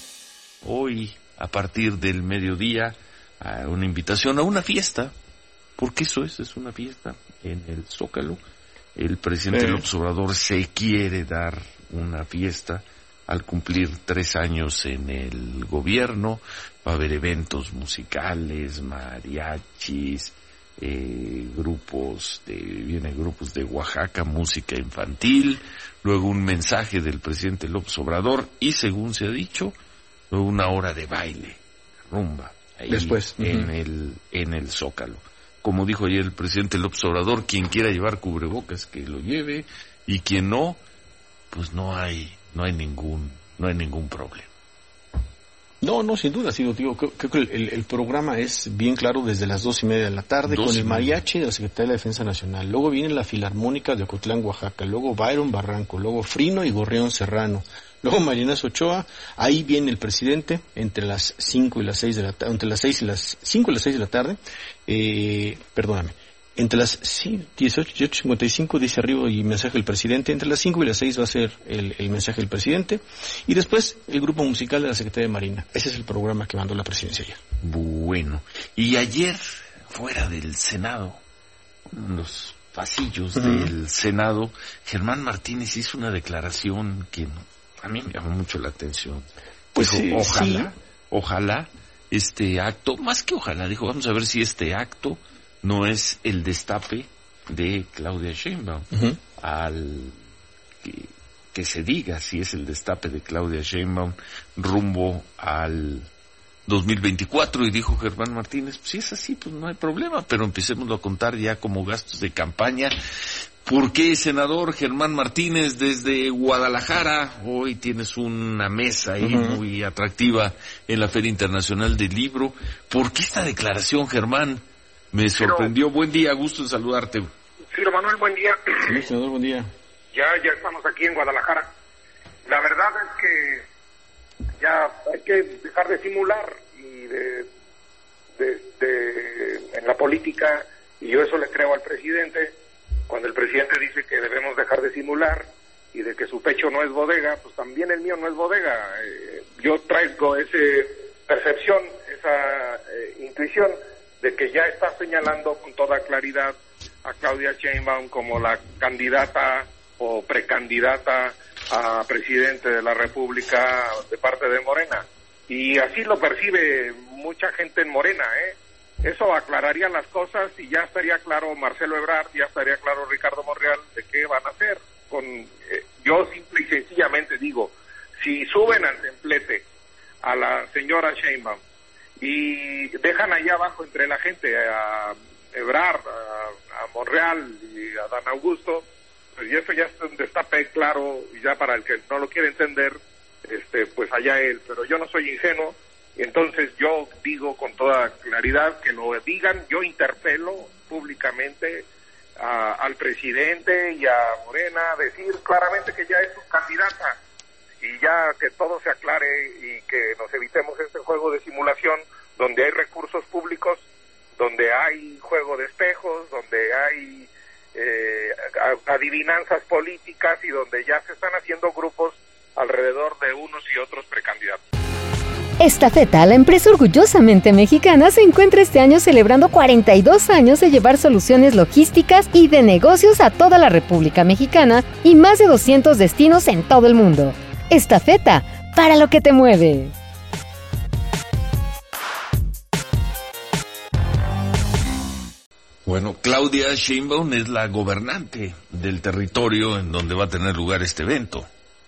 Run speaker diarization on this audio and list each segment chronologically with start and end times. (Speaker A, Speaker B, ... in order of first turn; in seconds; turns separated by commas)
Speaker A: 0.6-5.1, Speaker A: 5.8-8.4, Speaker A: 8.9-29.7, Speaker B: 9.5-9.8, Speaker A: 30.3-40.8, Speaker B: 32.9-33.7, Speaker A: 41.5-44.5, Speaker B: 45.8-77.4, Speaker A: 50.5-51.2, Speaker A: 77.6-81.2, Speaker A: 81.9-98.8, Speaker B: 83.3-83.7, Speaker B: 89.7-90.7, Speaker B: 98.9-99.2, Speaker A: 99.4-100.2, Speaker A: 100.8-106.1, Speaker A: 106.7-112.9, Speaker A: 113.7-127.3, Speaker B: 119.2-119.6, Speaker C: 125.4-125.7, Speaker C: 127.7-129.0, Speaker B: 128.8-129.7, Speaker C: 130.1-131.7, Speaker C: 132.4-133.6, Speaker C: 134.6-137.5, Speaker C: 138.4-142.6, Speaker C: 143.1-179.7, Speaker C: 180.2-181.6, Speaker C: 182.2-207.2, Speaker C: 207.8-213.9, Speaker C: 214.4-224.6, Speaker D: 225.6-239.9, Speaker A: 245.8-251.5